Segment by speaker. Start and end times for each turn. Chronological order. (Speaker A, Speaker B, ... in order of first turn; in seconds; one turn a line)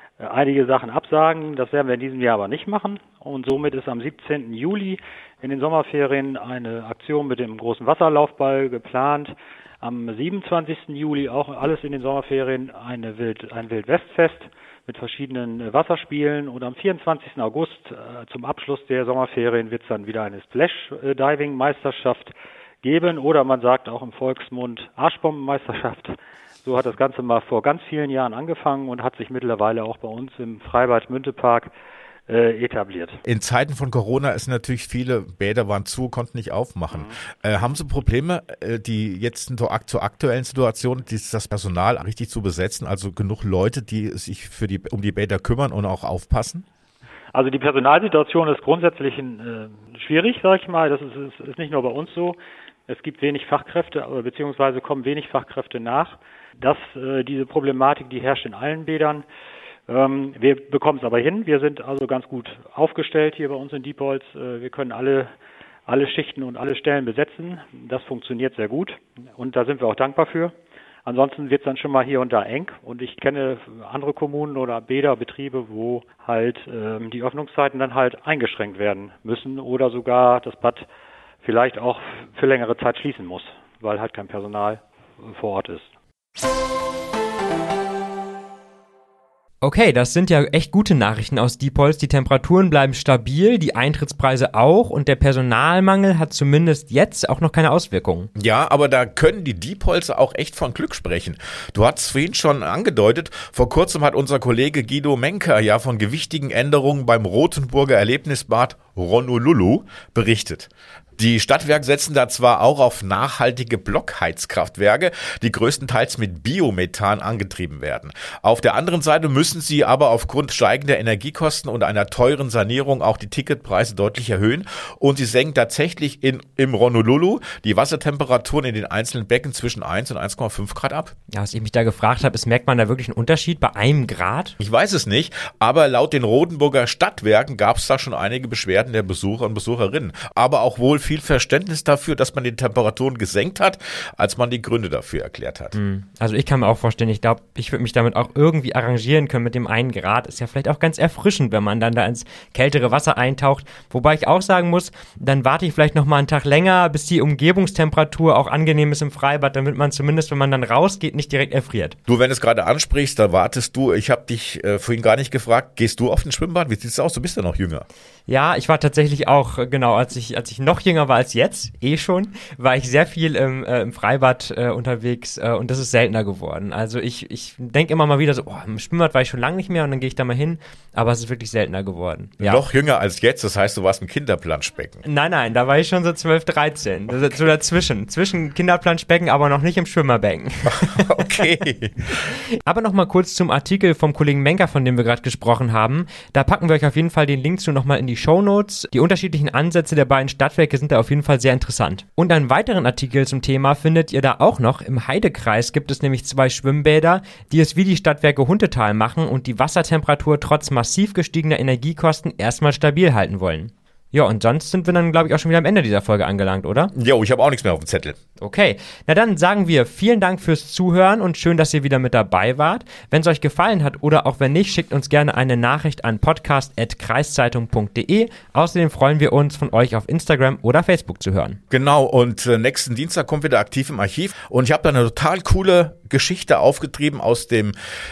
Speaker A: 0.2-31.7
Speaker A: 32.3-33.2
Speaker B: 33.2-46.6
Speaker A: 47.3-52.4
Speaker A: 52.9-59.2
Speaker A: 59.9-65.3
Speaker A: 65.9-70.5
Speaker A: 71.1-80.9
Speaker A: 81.4-85.9
Speaker C: 89.6-98.3
Speaker B: 98.4-131.1
Speaker C: 131.3-134.6
Speaker B: 134.6-145.8
Speaker C: 145.7-162.0
Speaker B: 162.1-167.9
Speaker C: 168.3-182.6
Speaker B: 182.4-185.0
Speaker C: 185.1-191.3
Speaker B: 190.7-192.2
Speaker C: 192.2-216.9
Speaker B: 216.9-218.2
Speaker C: 218.4-231.6
Speaker B: 231.7-237.8